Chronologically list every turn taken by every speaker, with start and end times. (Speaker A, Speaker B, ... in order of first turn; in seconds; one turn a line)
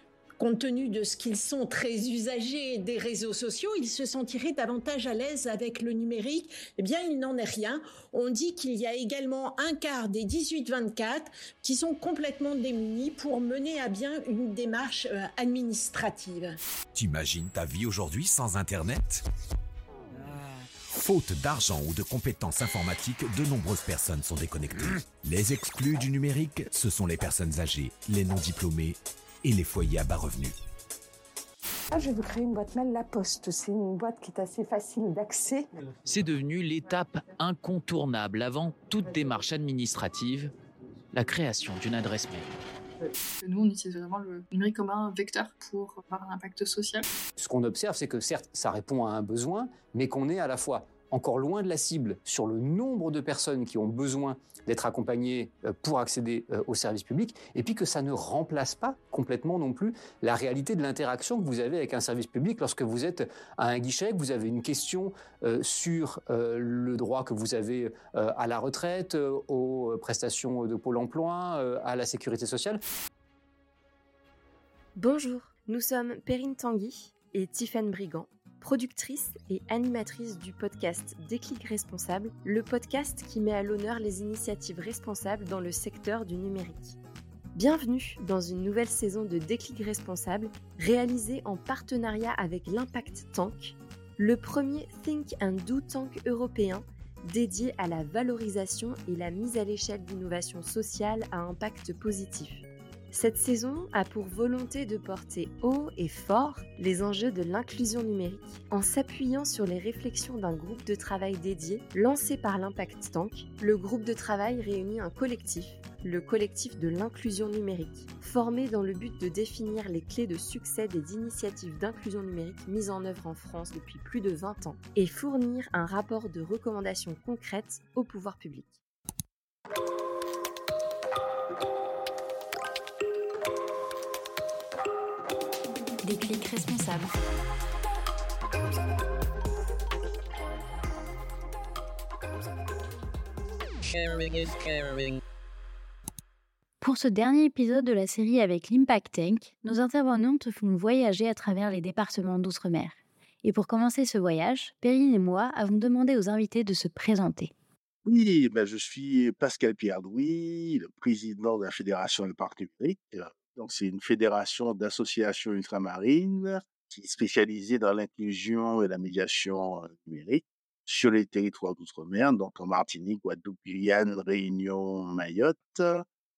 Speaker A: 0.4-16.6
Speaker B: 16.9-19.2
Speaker B: 20.9-30.6
Speaker C: 31.9-35.7
Speaker D: 36.0-40.5
Speaker D: 41.1-42.5
Speaker E: 43.4-47.0
Speaker F: 47.4-72.8
Speaker G: 75.0-87.0
Speaker G: 87.5-128.8
Speaker G: 136.1-137.0
Speaker H: 146.8-157.5
Speaker I: 158.0-176.0